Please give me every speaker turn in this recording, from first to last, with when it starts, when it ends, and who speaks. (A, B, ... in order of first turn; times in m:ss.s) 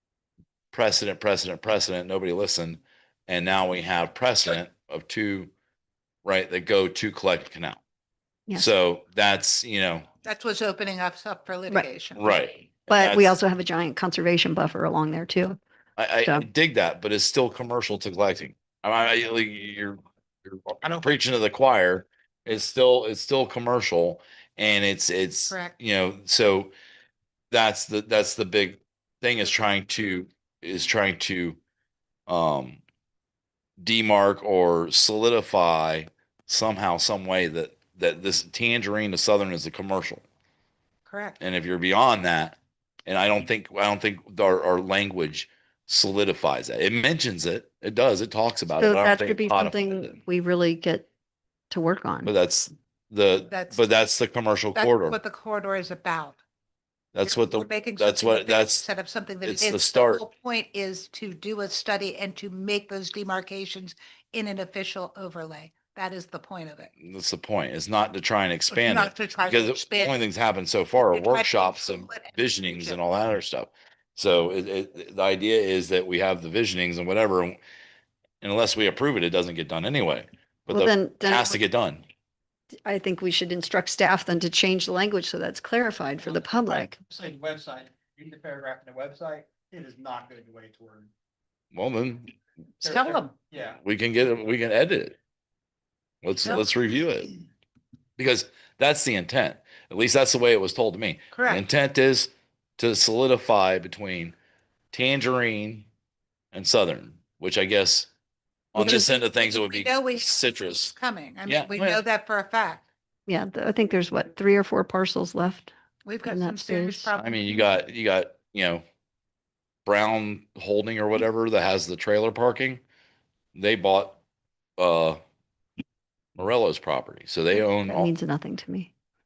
0:00.7-0:05.5 A
0:06.2-0:07.8 A
0:08.5-0:10.0 A
0:10.2-0:12.3 B
0:12.2-0:13.3 A
0:12.9-0:15.6 C
0:16.0-0:26.7 A
0:25.5-0:25.7 B
0:27.5-0:31.6 A
0:32.3-0:32.8 A
0:33.8-0:40.2 A
0:41.0-0:41.4 B
0:41.4-0:50.2 A
0:48.8-0:51.1 C
0:51.7-0:52.3 C
0:52.2-0:55.2 A
0:53.5-0:53.8 B
0:54.7-0:56.4 B
0:57.1-0:58.8 A
0:57.2-1:06.9 B
0:59.4-1:00.2 A
1:07.0-1:17.6 A
1:08.7-1:10.2 B
1:11.0-1:13.0 B
1:18.4-1:22.0 A
1:20.7-1:21.6 C
1:22.8-1:27.0 C
1:26.2-1:31.1 D
1:31.7-1:32.3 A
1:32.8-1:33.8 D
1:32.8-1:33.3 B
1:33.8-1:35.2 A
1:36.2-1:37.3 A
1:38.2-1:44.3 A
1:41.3-1:41.6 B
1:44.9-1:45.9 A
1:46.5-1:48.1 A
1:48.7-1:50.9 A
1:48.7-1:49.1 C
1:49.4-1:52.8 B
1:51.5-1:52.0 A
1:53.3-1:55.7 C
1:56.0-1:57.7 B
1:56.3-1:57.1 C
1:57.2-1:58.8 A
1:59.8-2:02.8 A
2:03.5-2:04.2 A
2:04.8-2:05.2 A
2:06.4-2:08.1 A
2:07.5-2:08.9 C